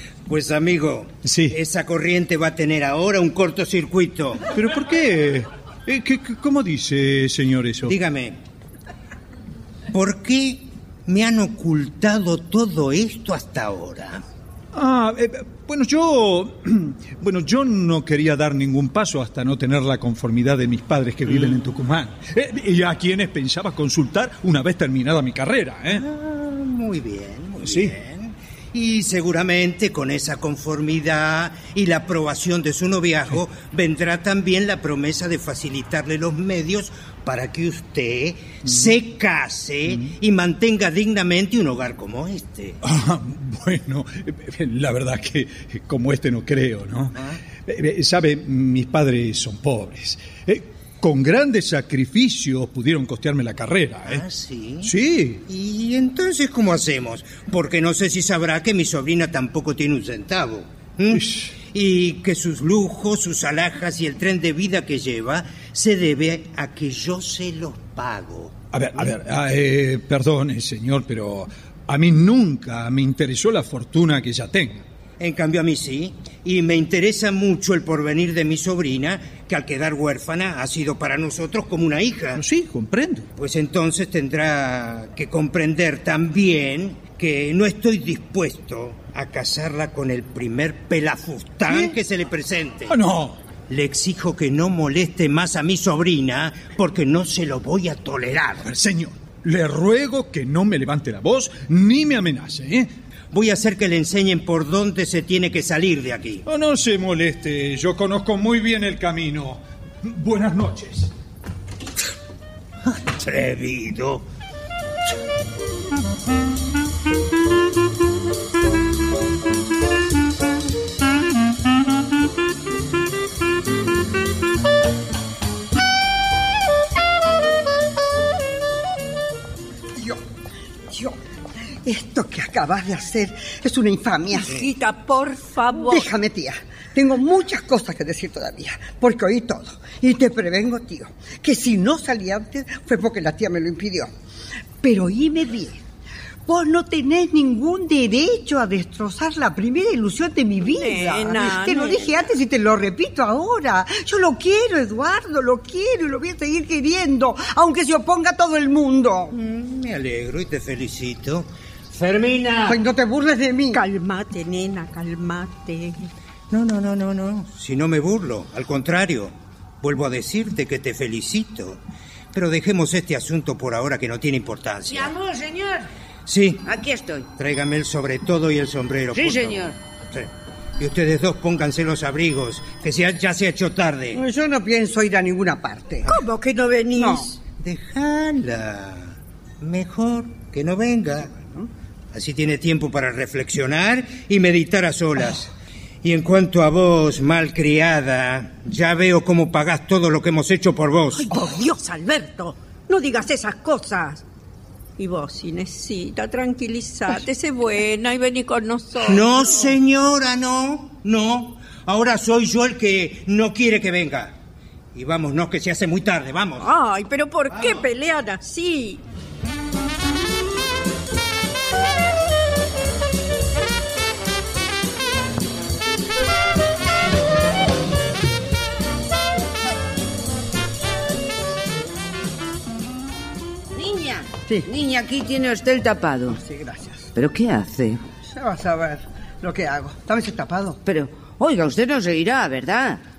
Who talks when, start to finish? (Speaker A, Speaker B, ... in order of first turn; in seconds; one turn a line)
Speaker A: 0.2-4.4
Speaker B: 1.2-1.6
Speaker B: 4.5-8.0
Speaker A: 7.8-8.4
Speaker A: 9.9-14.2
Speaker B: 14.7-26.0
Speaker A: 21.3-21.6
Speaker A: 25.9-42.8
Speaker B: 27.6-27.9
Speaker B: 38.6-38.9
Speaker B: 42.8-54.2
Speaker A: 47.1-47.4
Speaker A: 54.1-54.9
Speaker B: 54.8-55.4
Speaker A: 55.5-69.1
Speaker B: 61.1-61.5
Speaker B: 68.7-74.8
Speaker A: 75.2-82.4
Speaker B: 82.3-83.3
Speaker A: 83.4-93.0
Speaker B: 91.7-92.0
Speaker B: 92.9-93.4
Speaker A: 93.7-98.7
Speaker B: 98.6-102.9
Speaker A: 103.3-106.4
Speaker B: 106.4-111.1
Speaker A: 112.9-114.2
Speaker C: 129.9-130.2
Speaker C: 130.9-131.2
Speaker C: 131.8-134.6
Speaker D: 134.3-136.1
Speaker C: 135.8-144.1
Speaker C: 144.8-145.8
Speaker C: 146.5-159.3
Speaker D: 150.7-152.1
Speaker A: 159.3-162.8
Speaker C: 162.7-163.8
Speaker D: 163.7-166.0
Speaker A: 166.5-171.8
Speaker A: 172.3-175.1
Speaker E: 174.9-175.9
Speaker A: 176.2-176.6
Speaker E: 176.6-177.3
Speaker A: 177.4-184.2
Speaker E: 179.1-179.8
Speaker C: 184.1-186.1
Speaker D: 186.1-187.3
Speaker C: 186.9-187.3
Speaker A: 187.4-191.3
Speaker C: 191.2-191.7
Speaker A: 192.1-195.5
Speaker A: 196.0-201.3
Speaker D: 201.2-204.2
Speaker D: 205.0-209.7
Speaker A: 209.0-214.3
Speaker A: 214.9-216.7
Speaker D: 216.6-219.0
Speaker E: 233.7-236.4
Speaker C: 236.3-237.1
Speaker E: 237.1-238.0
Speaker C: 238.2-240.8
Speaker E: 240.8-243.0